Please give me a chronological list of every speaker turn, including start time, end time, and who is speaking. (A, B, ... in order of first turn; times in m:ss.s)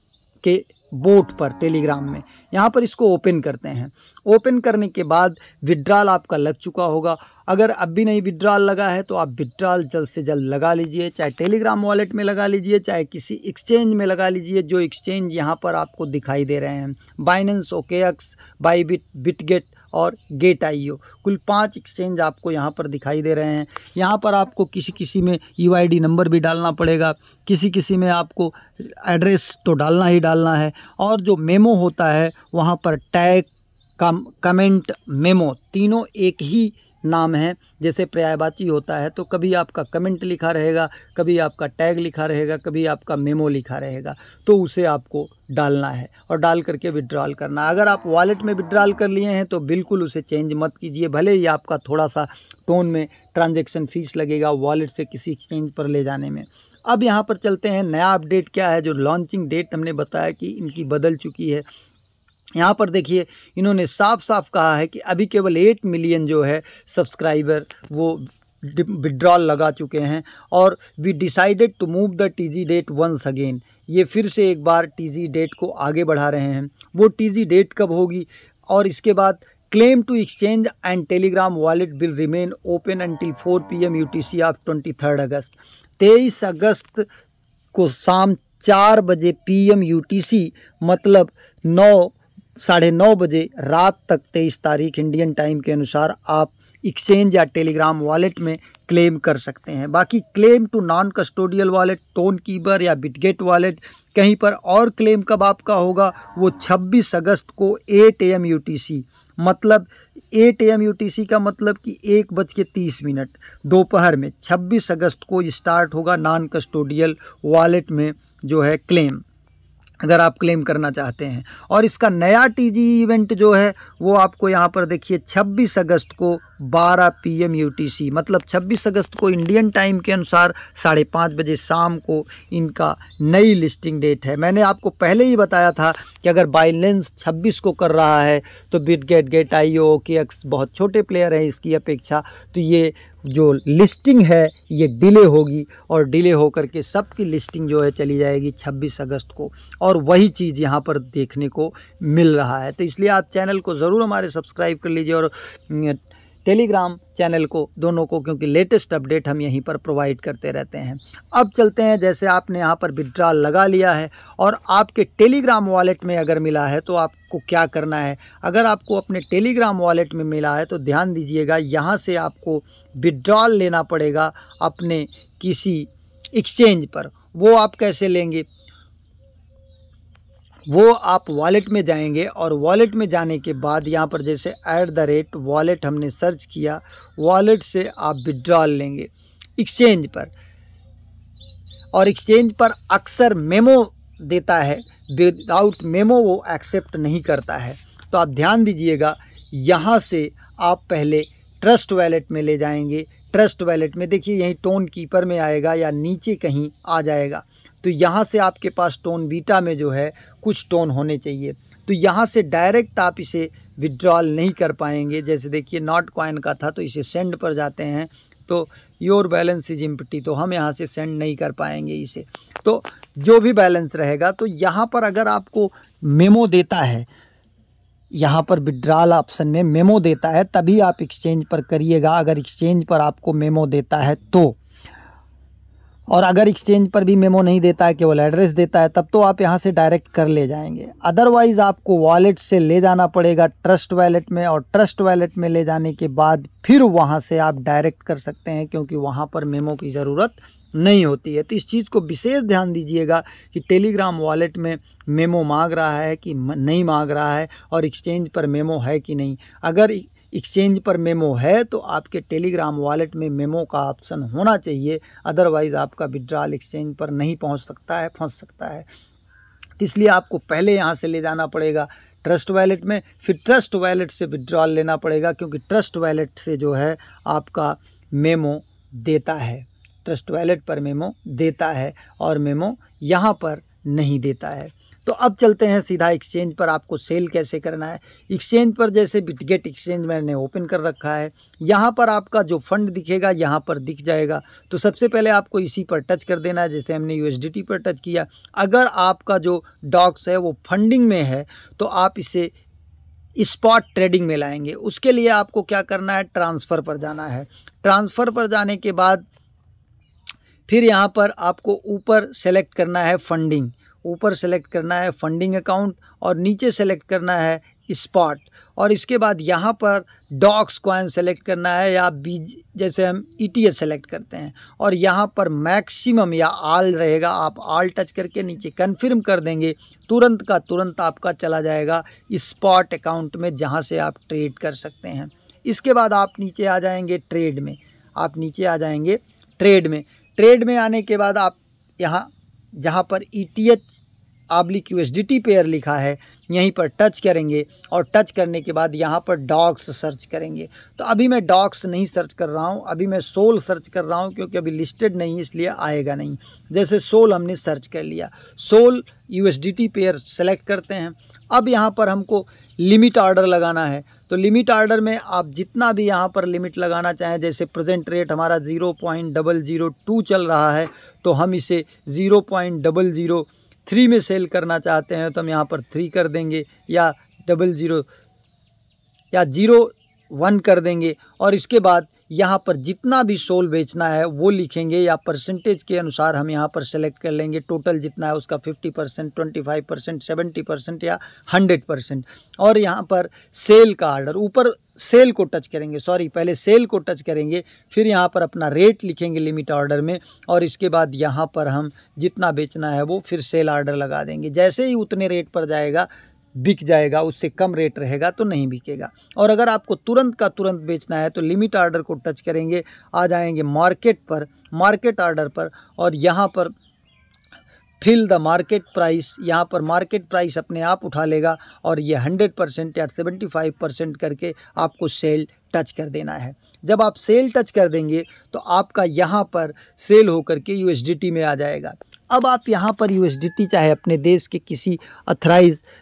0:00.4-0:33.5 A
0:34.0-1:01.6 A
1:02.6-1:27.0 A
1:27.7-1:59.2 A
2:00.0-2:58.4 A
3:00.7-3:10.3 A
3:11.9-3:47.1 A
3:48.1-3:54.6 A
3:56.1-4:28.9 A
4:29.8-5:02.5 A
5:03.4-5:09.2 A
5:10.7-5:44.0 A
5:44.5-6:18.0 A
6:19.3-6:56.7 A
6:58.0-7:15.8 A